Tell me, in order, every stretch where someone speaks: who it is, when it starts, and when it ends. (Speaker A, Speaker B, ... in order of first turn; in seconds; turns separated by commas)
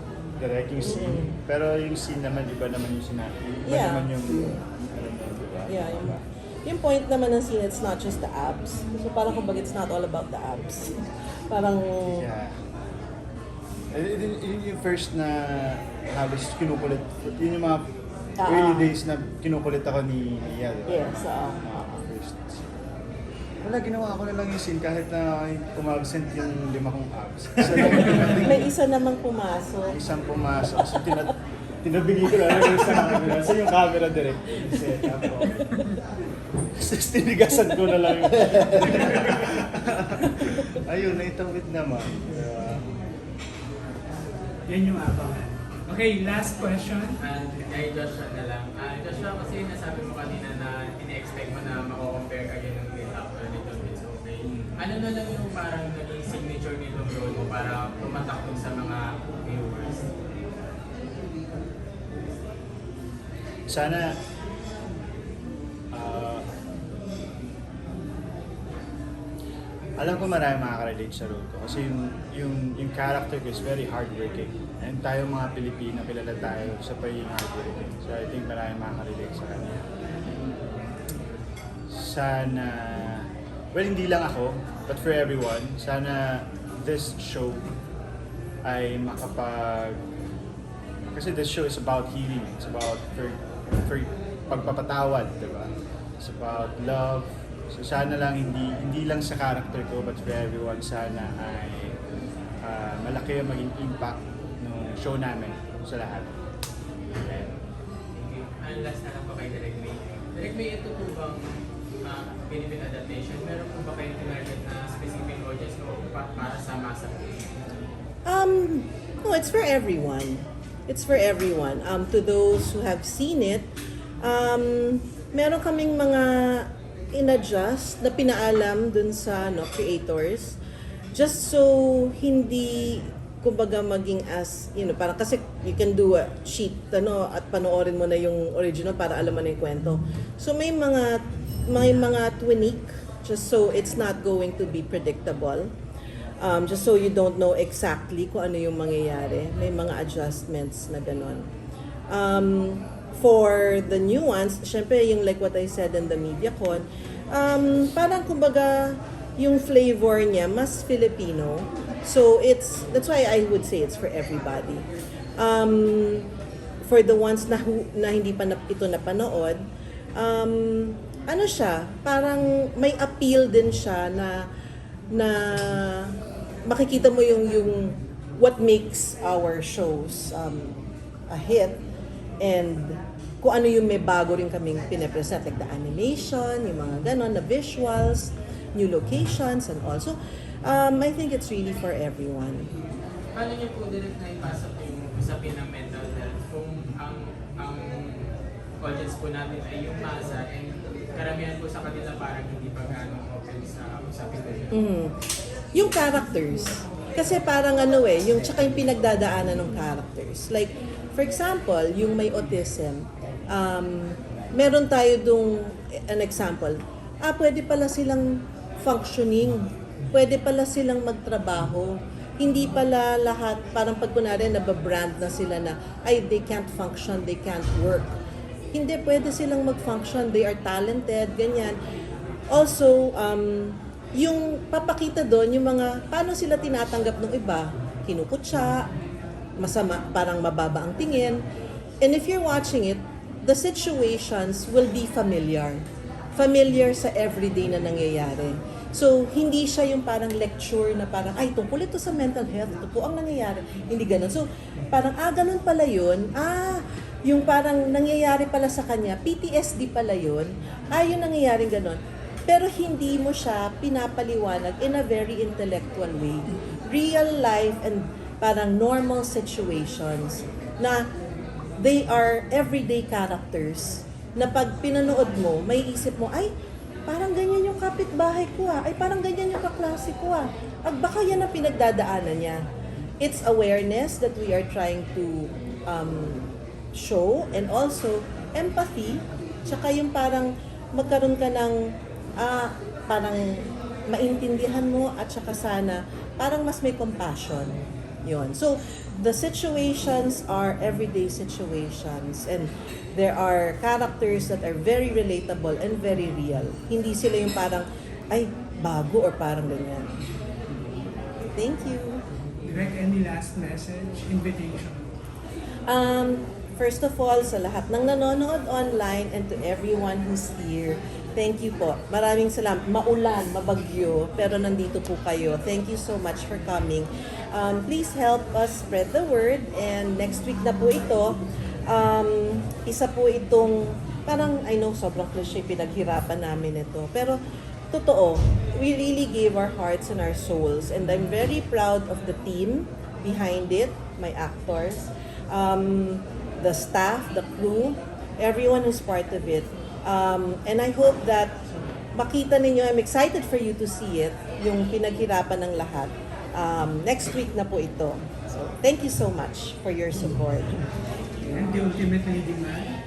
Speaker A: 0.4-6.2, Speaker B: 0.8-1.4, Speaker B: 3.7-4.6, Speaker B: 5.7-12.2, Speaker A: 12.1-12.6, Speaker A: 13.9-17.9, Speaker B: 18.4-18.9, Speaker A: 18.4-22.6, Speaker B: 20.9-22.0, Speaker A: 23.6-28.6, Speaker B: 28.1-30.0, Speaker A: 29.9-35.7, Speaker B: 34.8-35.6, Speaker A: 36.7-42.9, Speaker C: 44.6-47.2, Speaker D: 47.2-60.1, Speaker A: 63.7-64.2, Speaker A: 65.9-66.5, Speaker A: 70.0-79.8, Speaker A: 81.9-87.7, Speaker A: 88.7-90.0, Speaker A: 91.1-102.0, Speaker A: 102.6-106.3, Speaker A: 107.2-107.5, Speaker D: 108.1-111.5, Speaker D: 112.0-117.5, Speaker B: 118.3-123.7, Speaker B: 124.2-130.6, Speaker B: 131.1-145.7, Speaker B: 146.4-151.5, Speaker B: 152.1-164.8, Speaker B: 165.4-166.3, Speaker B: 166.8-169.6, Speaker B: 170.2-174.5, Speaker B: 175.1-180.8, Speaker B: 181.3-181.8, Speaker B: 182.4-192.7, Speaker D: 193.3-204.8, Speaker B: 204.7-205.2, Speaker B: 205.7-228.2, Speaker B: 228.7-231.8, Speaker B: 232.5-238.9, Speaker B: 239.6-241.4, Speaker B: 242.0-245.8, Speaker B: 246.3-271.1, Speaker B: 271.8-276.5, Speaker B: 277.1-282.6, Speaker B: 283.2-291.8, Speaker B: 292.4-310.1, Speaker B: 311.6-312.2, Speaker C: 312.6-315.1, Speaker B: 315.9-337.4, Speaker B: 337.9-351.6, Speaker B: 352.2-360.8, Speaker C: 361.4-363.0